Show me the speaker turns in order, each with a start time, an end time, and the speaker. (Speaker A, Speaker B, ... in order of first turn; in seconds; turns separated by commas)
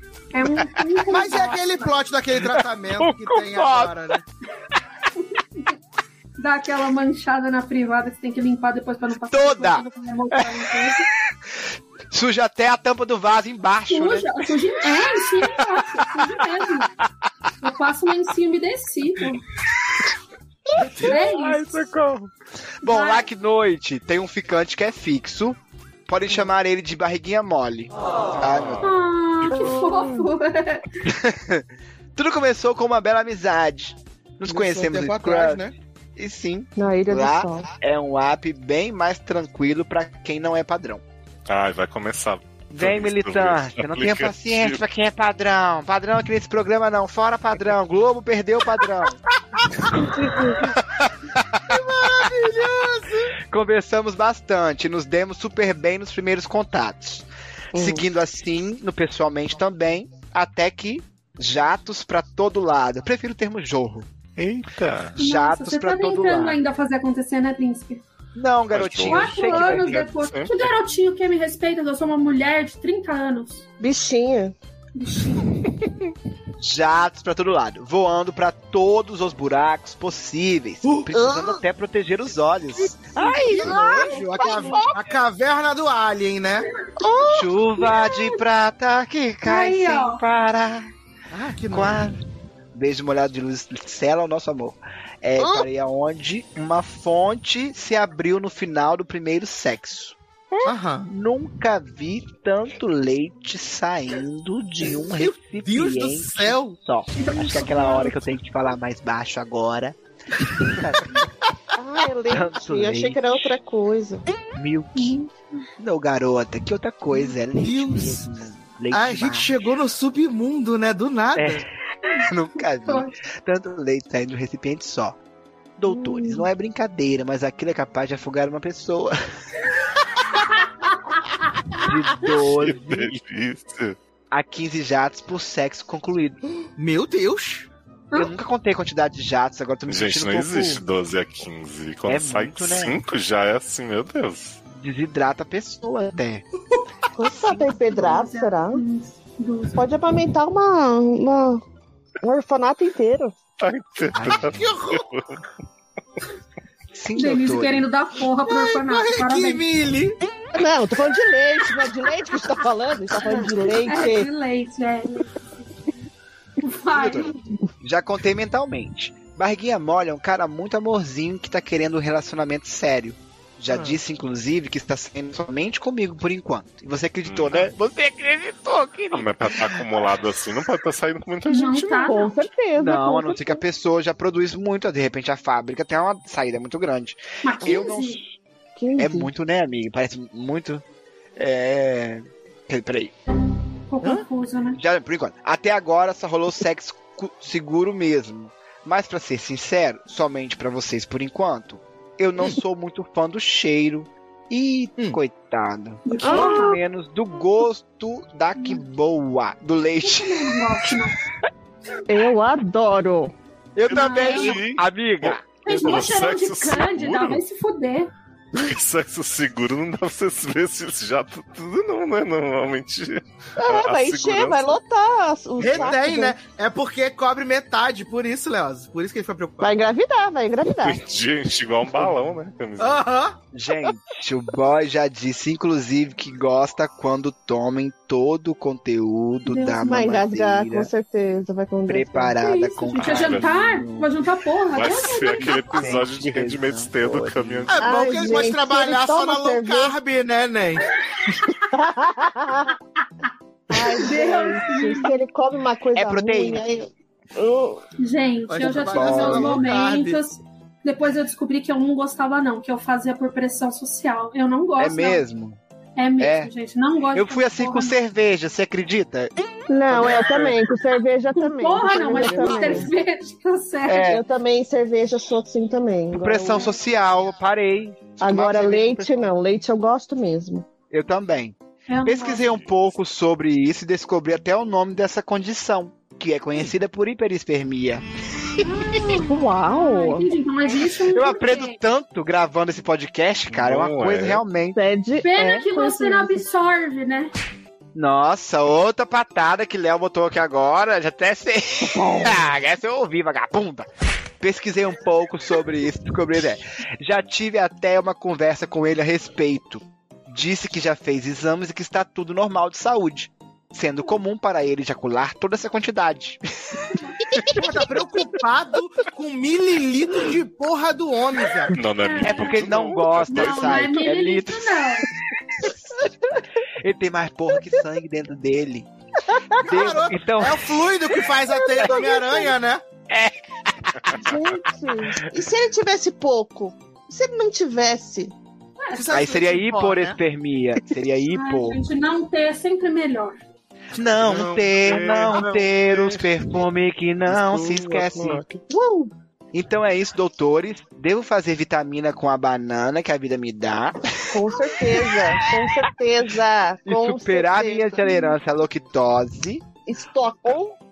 Speaker A: 0.3-1.9, Speaker B: 1.1-4.2, Speaker C: 2.5-4.1, Speaker A: 5.2-5.7, Speaker A: 6.4-11.1, Speaker C: 9.3-10.5, Speaker C: 12.1-16.2, Speaker A: 13.9-16.9, Speaker A: 17.6-19.4, Speaker C: 20.8-22.3, Speaker A: 21.0-21.8, Speaker C: 22.8-28.8, Speaker A: 22.8-23.3, Speaker A: 28.8-31.1, Speaker D: 29.5-30.3, Speaker C: 31.0-31.6, Speaker C: 32.1-35.6, Speaker B: 34.5-35.7, Speaker C: 36.1-41.0, Speaker D: 36.8-37.7, Speaker E: 41.5-44.8, Speaker C: 42.7-49.2, Speaker D: 49.9-50.7, Speaker C: 50.9-52.3, Speaker B: 51.7-53.3, Speaker C: 53.5-64.1, Speaker D: 57.7-58.0, Speaker E: 64.4-65.2, Speaker C: 65.2-66.6, Speaker A: 65.2-68.0, Speaker C: 68.3-70.0, Speaker E: 68.7-70.7, Speaker A: 69.0-73.6, Speaker D: 73.8-74.5, Speaker A: 75.0-75.5, Speaker C: 76.6-84.1, Speaker D: 81.1-81.6, Speaker B: 83.2-86.7, Speaker D: 83.5-84.9, Speaker A: 83.7-84.8, Speaker D: 87.0-87.5, Speaker C: 87.3-90.9, Speaker A: 87.8-88.4, Speaker A: 89.4-90.2, Speaker B: 91.3-92.1, Speaker C: 91.7-92.2, Speaker C: 92.7-100.2, Speaker B: 95.4-95.7, Speaker B: 100.6-101.1, Speaker C: 101.1-111.2, Speaker B: 105.2-106.8, Speaker A: 107.1-108.2, Speaker D: 111.8-114.2, Speaker C: 112.3-113.5, Speaker C: 114.5-115.2, Speaker A: 114.9-115.6, Speaker C: 115.8-119.5, Speaker B: 117.6-118.3, Speaker B: 118.9-121.6, Speaker C: 121.3-121.7, Speaker A: 122.0-122.3, Speaker C: 122.2-125.2, Speaker A: 122.8-123.2, Speaker C: 125.8-129.1, Speaker D: 125.9-126.4, Speaker A: 130.5-131.2, Speaker C: 131.8-133.1, Speaker E: 132.3-134.0, Speaker C: 134.3-136.4, Speaker B: 136.8-137.7, Speaker A: 138.1-138.3, Speaker C: 138.1-140.8, Speaker E: 139.9-144.6, Speaker C: 142.1-143.0, Speaker C: 144.7-146.4, Speaker D: 147.2-148.8, Speaker C: 147.2-148.2, Speaker A: 147.8-149.8, Speaker D: 149.7-151.6, Speaker D: 152.2-153.3, Speaker E: 153.6-155.4, Speaker C: 154.1-154.7, Speaker B: 154.4-155.1, Speaker C: 156.9-157.8, Speaker A: 157.2-159.6, Speaker B: 158.6-160.2, Speaker D: 160.5-164.3, Speaker A: 163.2-165.3, Speaker A: 166.6-167.3, Speaker C: 166.9-167.3, Speaker C: 167.8-179.8, Speaker B: 173.7-174.0, Speaker E: 177.2-177.7, Speaker E: 179.1-182.2, Speaker A: 181.4-182.5, Speaker D: 182.1-183.6, Speaker C: 182.7-188.3, Speaker A: 187.4-188.2, Speaker D: 188.8-189.3, Speaker C: 189.0-190.8, Speaker C: 191.3-193.1, Speaker A: 193.9-194.8, Speaker C: 194.8-210.9, Speaker A: 206.0-206.8, Speaker D: 206.2-206.8, Speaker A: 208.6-208.8, Speaker A: 210.0-211.2, Speaker D: 212.1-213.3, Speaker C: 213.8-215.4, Speaker E: 213.9-217.4, Speaker A: 213.9-214.6, Speaker A: 215.6-218.1, Speaker E: 218.5-224.8, Speaker D: 223.6-226.3, Speaker B: 225.6-229.8, Speaker D: 229.6-231.0, Speaker E: 230.7-233.0, Speaker B: 232.8-233.3, Speaker C: 233.5-240.9, Speaker A: 239.4-239.8, Speaker D: 239.8-242.3, Speaker C: 241.9-244.1, Speaker A: 242.4-245.9, Speaker E: 243.0-243.5, Speaker E: 244.7-248.2, Speaker C: 245.3-247.7, Speaker B: 247.7-250.9, Speaker D: 247.8-249.9, Speaker A: 251.2-251.6, Speaker D: 251.7-252.7, Speaker D: 253.7-257.8, Speaker A: 254.0-255.2, Speaker C: 255.9-256.6, Speaker A: 258.0-265.2, Speaker B: 258.5-260.2, Speaker C: 258.6-259.6, Speaker C: 264.8-265.6, Speaker A: 265.9-268.0, Speaker C: 266.2-266.5, Speaker C: 267.1-269.3, Speaker D: 269.7-272.9, Speaker C: 269.9-270.6, Speaker A: 271.3-274.2, Speaker C: 271.8-272.9, Speaker C: 273.9-274.2, Speaker D: 274.1-276.7, Speaker C: 276.1-279.3, Speaker D: 278.2-280.6, Speaker C: 280.9-288.0, Speaker A: 281.9-282.4, Speaker A: 288.6-291.8, Speaker D: 289.2-290.3, Speaker C: 291.1-294.8, Speaker E: 293.5-294.4, Speaker D: 294.7-296.4, Speaker A: 295.2-297.3, Speaker C: 297.9-303.9, Speaker C: 304.4-317.6, Speaker A: 316.9-317.2, Speaker B: 317.5-321.7, Speaker E: 321.7-323.9, Speaker A: 322.0-325.1, Speaker C: 322.2-326.0, Speaker C: 326.8-328.9, Speaker C: 329.6-330.8, Speaker B: 329.6-332.8, Speaker D: 331.5-332.5, Speaker C: 333.1-334.3, Speaker D: 334.1-338.3, Speaker A: 338.8-339.1, Speaker B: 338.9-340.2, Speaker C: 339.1-341.8, Speaker A: 341.3-343.4, Speaker C: 343.9-348.4, Speaker E: 344.0-346.5, Speaker E: 347.3-348.4, Speaker D: 348.6-349.1, Speaker C: 349.5-355.9, Speaker D: 354.3-358.3, Speaker C: 356.9-359.6, Speaker D: 359.9-360.7